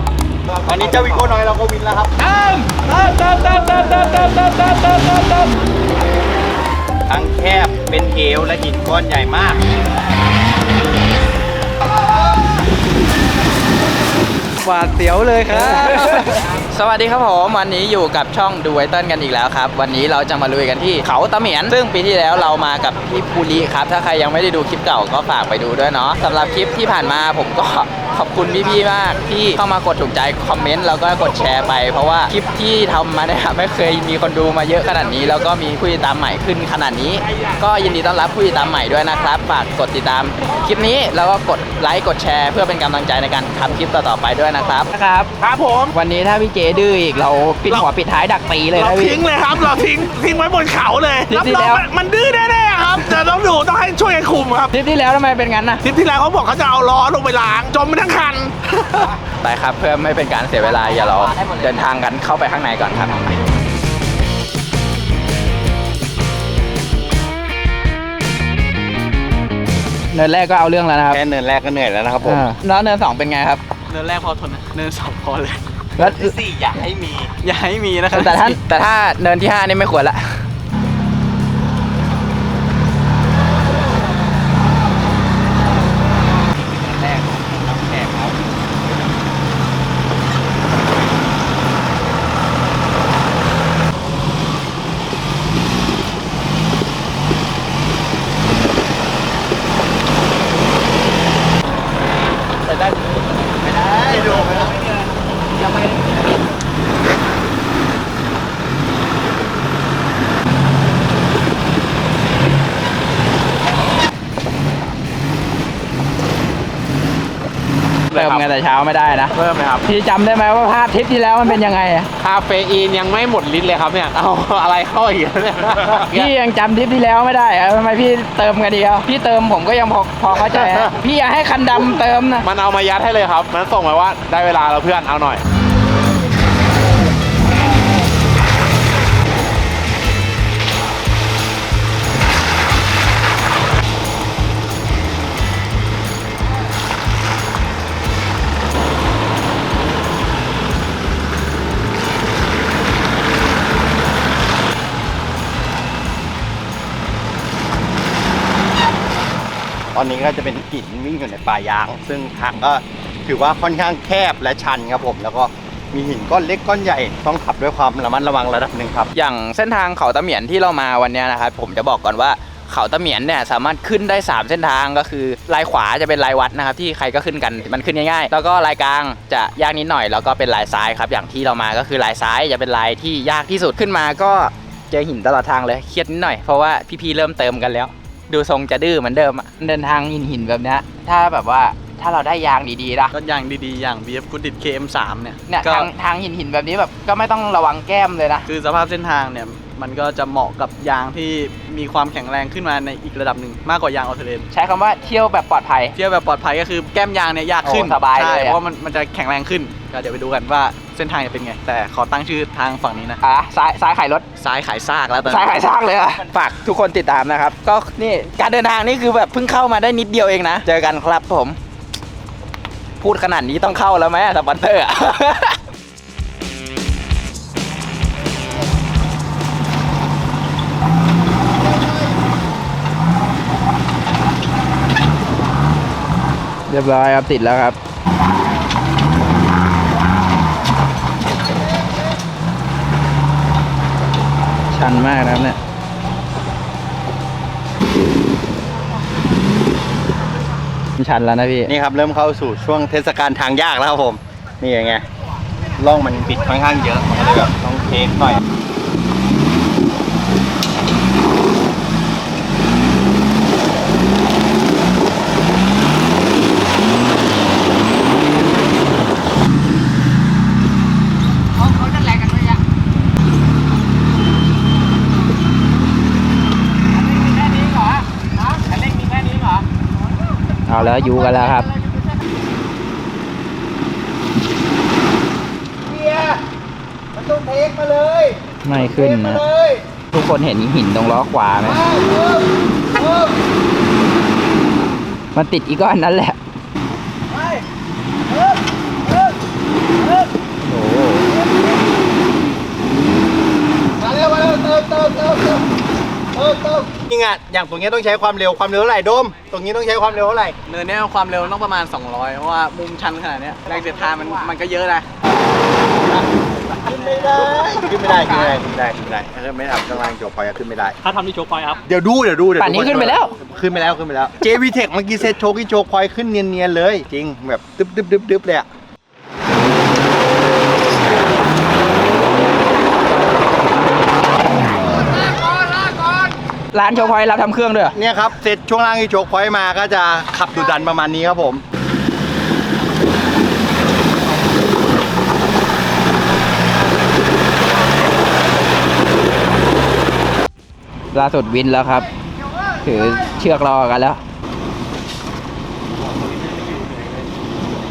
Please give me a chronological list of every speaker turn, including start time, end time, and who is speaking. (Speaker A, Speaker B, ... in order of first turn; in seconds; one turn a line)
Speaker A: 0.6-2.2
Speaker B: 2.2-5.5
Speaker A: 7.1-9.6
Speaker C: 14.6-15.3
Speaker B: 14.7-15.8
Speaker D: 15.5-45.3
Speaker B: 45.4-45.9
Speaker D: 45.9-49.2
Speaker B: 48.7-54.7
Speaker D: 51.3-51.8
Speaker D: 54.7-55.8
Speaker B: 55.8-59.1
Speaker D: 59.4-63.4
Speaker D: 70.1-71.2
Speaker A: 71.1-72.5
Speaker D: 72.2-73.6
Speaker C: 73.9-75.6
Speaker D: 76.0-76.3
Speaker A: 76.0-77.3
Speaker C: 77.4-78.6
Speaker D: 78.1-80.4
Speaker A: 103.7-104.7
Speaker D: 118.1-122.1
Speaker B: 118.1-118.5
Speaker B: 119.3-119.8
Speaker B: 122.2-126.3
Speaker D: 126.1-132.4
Speaker B: 132.4-135.4
Speaker A: 159.9-169.1
Speaker D: 169.1-193.1
Speaker C: 193.1-195.9
Speaker D: 195.5-198.5
Speaker C: 198.5-204.5
Speaker D: 204.5-205.9
Speaker C: 205.9-213.2
Speaker D: 207.6-208.6
Speaker D: 213.2-214.2
Speaker C: 214.4-215.6
Speaker D: 215.2-221.6
Speaker D: 223.0-225.6
Speaker D: 236.7-237.8
Speaker D: 244.7-245.6
Speaker D: 251.0-251.7
Speaker A: 251.7-255.0
Speaker A: 255.8-258.4
Speaker D: 280.7-281.7
Speaker A: 285.8-286.4
Speaker A: 287.1-289.9
Speaker D: 288.6-289.4
Speaker D: 290.1-291.8
Speaker A: 291.6-293.3
Speaker D: 295.3-296.4
Speaker D: 300.7-301.3
Speaker A: 304.0-305.6
Speaker A: 306.3-310.6
Speaker C: 310.6-315.1
Speaker A: 316.8-321.0
Speaker B: 321.2-321.7
Speaker A: 321.8-328.6
Speaker D: 322.6-323.3
Speaker D: 336.7-337.9
Speaker A: 337.9-341.6
Speaker D: 351.1-352.1
Speaker D: 352.8-354.2